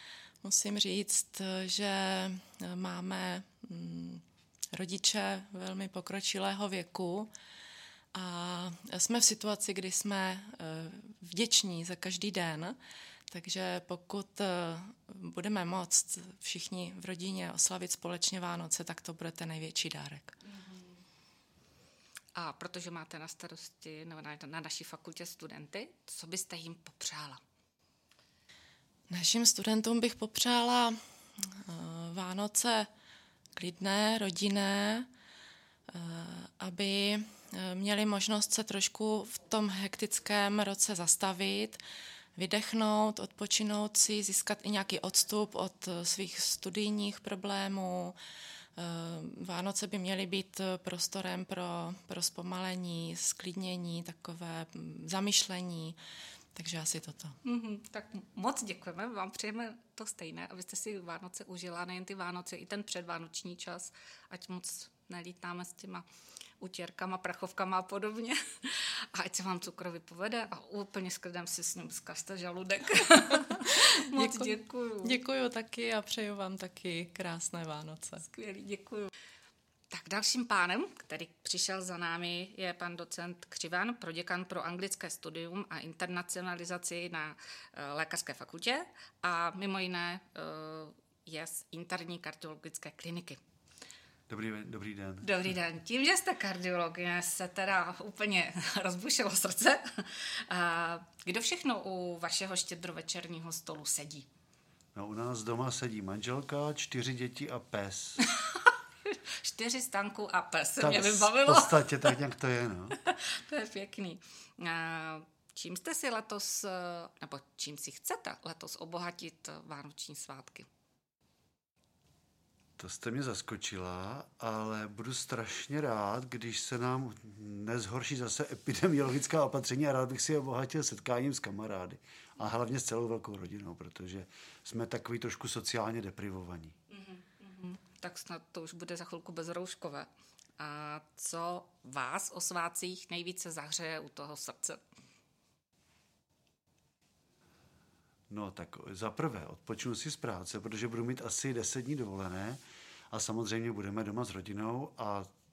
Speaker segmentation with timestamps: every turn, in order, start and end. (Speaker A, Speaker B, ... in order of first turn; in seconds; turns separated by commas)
Speaker A: 0.4-4.2, Speaker A: 4.7-7.3, Speaker A: 8.1-12.8, Speaker A: 13.3-20.4, Speaker B: 22.3-27.4, Speaker A: 29.1-31.0, Speaker A: 31.6-32.9, Speaker A: 33.5-35.1, Speaker A: 35.9-41.8, Speaker A: 42.4-48.1, Speaker A: 48.8-56.0, Speaker A: 56.5-57.3, Speaker B: 57.4-66.0, Speaker B: 66.6-75.2, Speaker A: 73.5-78.2, Speaker B: 78.2-79.1, Speaker B: 79.9-93.4, Speaker C: 94.3-95.3, Speaker B: 95.2-104.2, Speaker C: 104.9-108.2, Speaker B: 108.2-112.2, Speaker C: 110.8-113.0, Speaker B: 113.1-120.7, Speaker C: 122.8-136.7, Speaker B: 136.9-144.8, Speaker C: 148.3-155.3